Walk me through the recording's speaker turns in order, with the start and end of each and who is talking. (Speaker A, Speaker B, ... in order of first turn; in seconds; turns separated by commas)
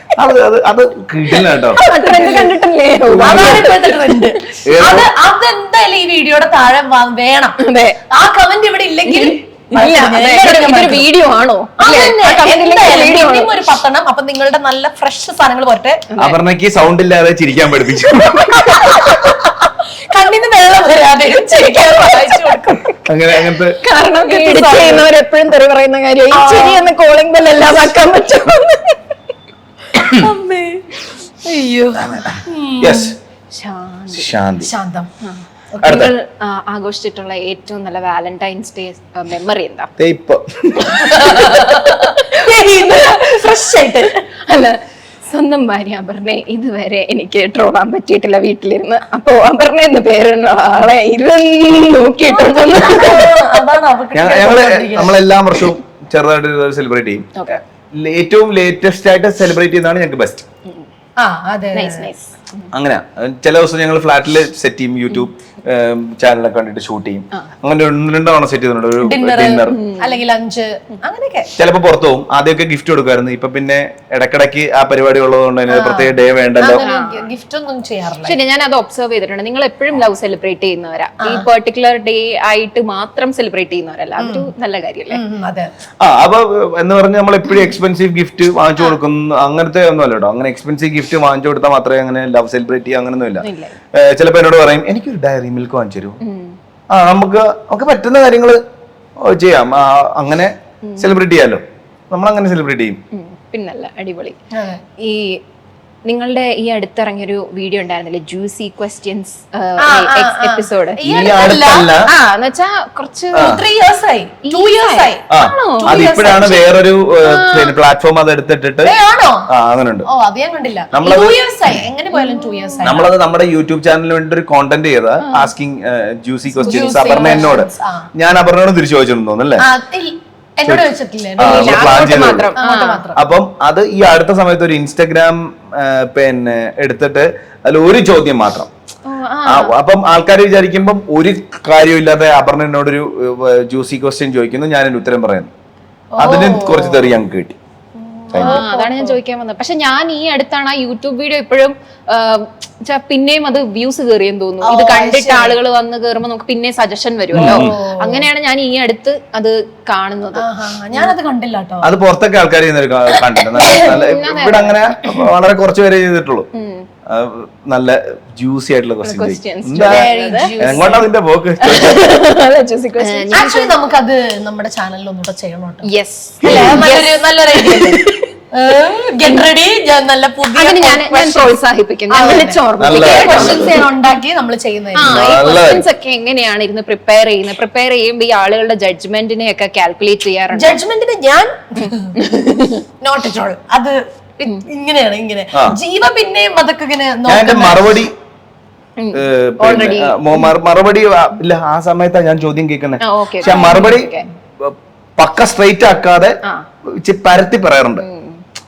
Speaker A: 0.2-1.8, Speaker B: 1.8-4.3, Speaker C: 1.9-2.5, Speaker A: 3.1-3.7, Speaker C: 3.2-7.6, Speaker A: 4.7-5.1, Speaker B: 7.6-8.0, Speaker C: 8.1-11.1, Speaker B: 9.1-13.5, Speaker C: 11.8-16.1, Speaker B: 16.1-16.4, Speaker A: 16.2-19.1, Speaker C: 18.7-19.3, Speaker B: 18.9-19.1, Speaker C: 20.1-23.1, Speaker B: 21.7-22.7, Speaker A: 23.1-23.8, Speaker B: 23.8-29.0, Speaker C: 24.2-25.1, Speaker C: 26.3-26.9, Speaker C: 30.0-30.9, Speaker C: 31.4-33.1, Speaker A: 32.0-33.2, Speaker B: 33.5-34.3, Speaker A: 34.1-34.7, Speaker C: 34.6-35.1, Speaker B: 35.2-39.9, Speaker A: 35.8-36.1, Speaker A: 40.0-41.1, Speaker C: 40.9-44.2, Speaker B: 41.2-43.7, Speaker B: 44.3-53.4, Speaker C: 52.3-55.1, Speaker A: 54.1-60.5, Speaker C: 61.2-62.1, Speaker B: 61.7-62.7, Speaker A: 62.7-69.8, Speaker C: 69.0-71.5, Speaker B: 69.7-70.2, Speaker A: 71.6-76.8, Speaker C: 75.7-78.4, Speaker B: 76.8-77.3, Speaker B: 78.2-85.2, Speaker C: 84.2-84.5, Speaker C: 85.1-85.7, Speaker A: 86.0-96.2, Speaker B: 93.4-93.8, Speaker B: 96.2-96.5, Speaker A: 96.9-98.6, Speaker A: 99.2-103.0, Speaker B: 103.1-104.4, Speaker C: 104.6-104.8, Speaker B: 105.0-105.4, Speaker B: 106.1-111.0, Speaker C: 109.8-112.0, Speaker A: 111.0-112.1, Speaker B: 112.1-113.6, Speaker C: 113.3-115.2, Speaker A: 113.3-113.6, Speaker B: 114.5-116.3, Speaker A: 115.3-118.9, Speaker C: 115.8-116.7, Speaker B: 117.2-117.8, Speaker C: 118.8-119.5, Speaker A: 119.5-120.1, Speaker C: 120.1-123.1, Speaker A: 120.9-121.4, Speaker B: 122.1-122.8, Speaker A: 122.8-129.7, Speaker B: 125.2-125.5, Speaker C: 126.5-128.1, Speaker B: 126.7-127.5, Speaker C: 129.6-133.2, Speaker A: 131.4-132.5, Speaker B: 131.4-133.1, Speaker A: 133.2-138.7, Speaker B: 139.1-139.7, Speaker A: 139.5-145.5, Speaker C: 146.2-147.2, Speaker A: 146.2-147.6, Speaker C: 148.0-149.2, Speaker A: 148.3-148.6, Speaker B: 148.4-161.2, Speaker C: 154.6-155.6, Speaker A: 157.3-157.7, Speaker C: 157.4-158.2, Speaker C: 160.4-161.9, Speaker A: 161.8-166.5, Speaker B: 163.6-165.1, Speaker B: 166.5-166.9, Speaker A: 167.1-172.1, Speaker B: 169.0-171.0, Speaker C: 169.8-171.1, Speaker B: 171.6-173.8, Speaker C: 173.0-175.9, Speaker B: 175.9-178.2, Speaker C: 176.4-181.5, Speaker B: 180.6-183.9, Speaker C: 182.1-185.2, Speaker A: 182.8-183.8, Speaker B: 184.9-190.8, Speaker A: 185.0-185.8, Speaker C: 190.6-192.1, Speaker B: 191.8-192.8, Speaker C: 193.0-197.9, Speaker A: 197.3-198.1, Speaker B: 199.0-200.5, Speaker A: 199.1-206.4, Speaker B: 203.0-204.3, Speaker C: 203.4-203.9, Speaker A: 206.9-208.0, Speaker B: 208.0-208.4